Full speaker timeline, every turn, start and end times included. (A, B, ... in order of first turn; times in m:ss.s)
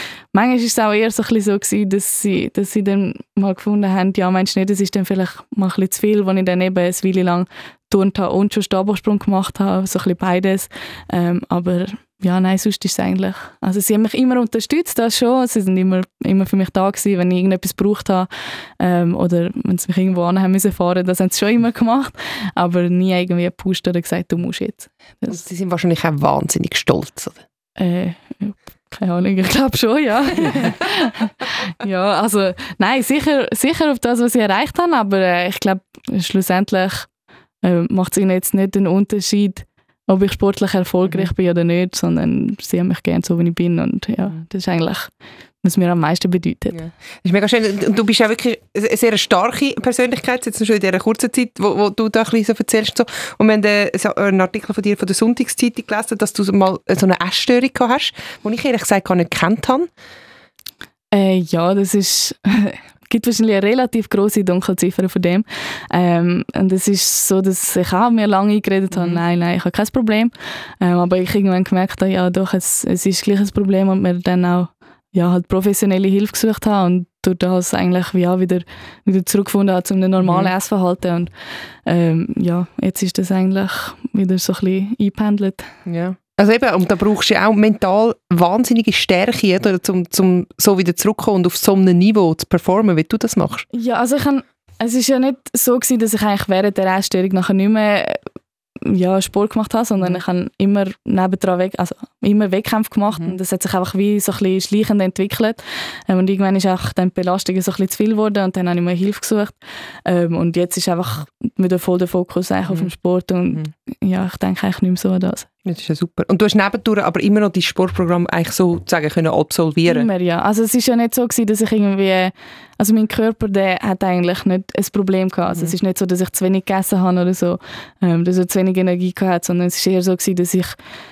0:00.3-0:25.4 A
0:25.3-0:27.4 B
0:27.8-0:37.1 A
0:37.6-0:45.1 A
0:45.6-0:46.8 A
0:46.7-0:59.9 B
1:01.1-1:21.3 A
1:08.9-1:09.2 B
1:20.2-1:20.5 B
1:21.8-1:25.7 A
1:25.9-1:33.7 B
1:33.7-1:38.2 A
1:38.8-1:55.5 A
1:55.6-2:00.1 B
1:59.9-2:10.8 A